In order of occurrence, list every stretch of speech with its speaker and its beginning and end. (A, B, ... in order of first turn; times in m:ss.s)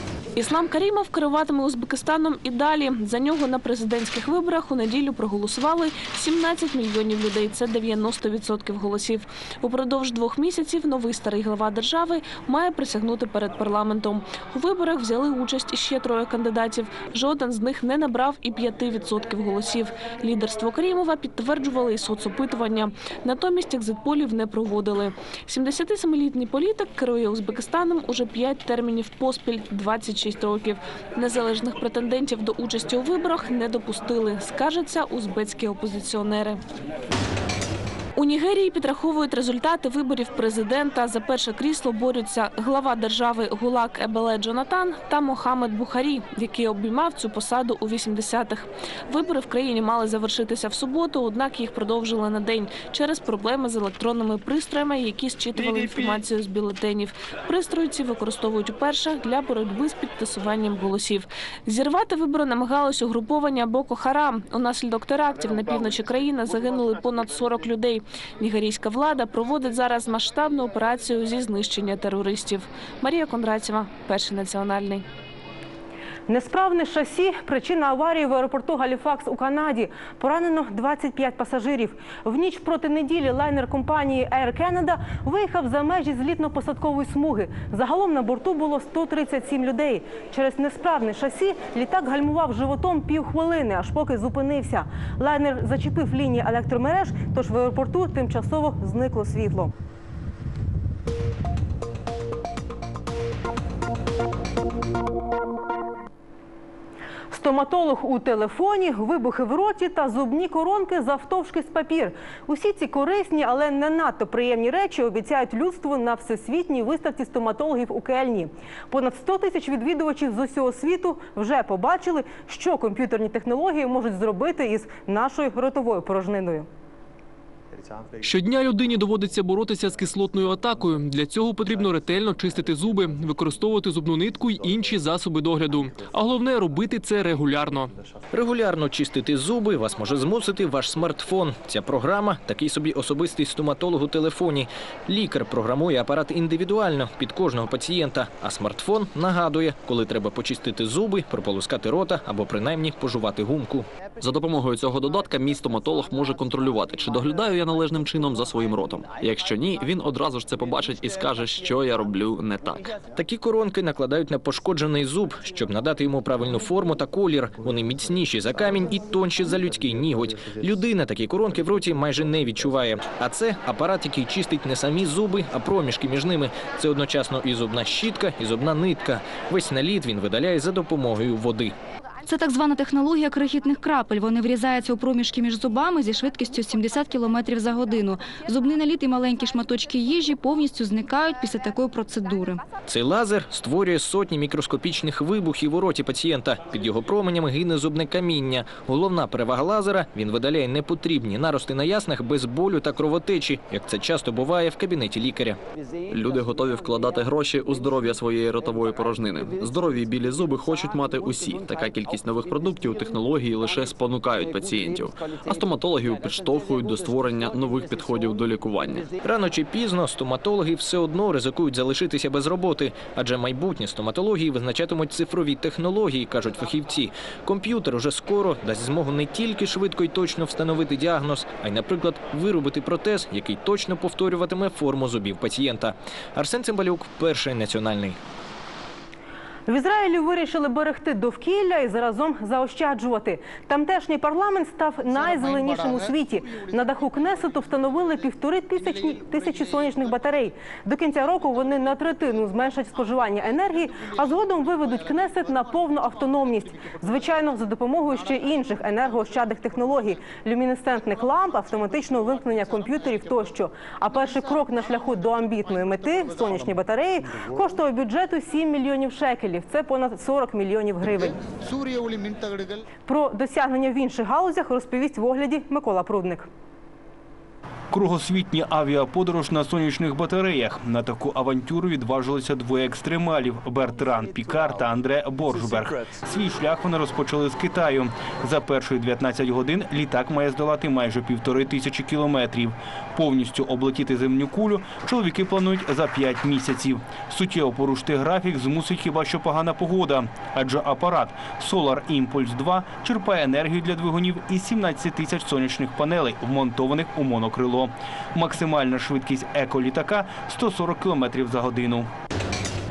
0:00.4-0:36.6 A
0:38.2-1:15.0 A
1:16.3-1:39.7 B
1:47.3-2:06.7 B
2:08.2-2:17.9 C
2:18.3-2:33.8 D
2:34.2-2:42.9 E
2:43.1-3:01.7 D
3:02.2-3:12.6 F
3:12.8-3:25.6 D
3:26.1-3:39.1 E
3:39.2-3:58.2 D
3:59.7-4:31.4 B
4:33.1-4:36.4 B
4:37.9-5:12.1 G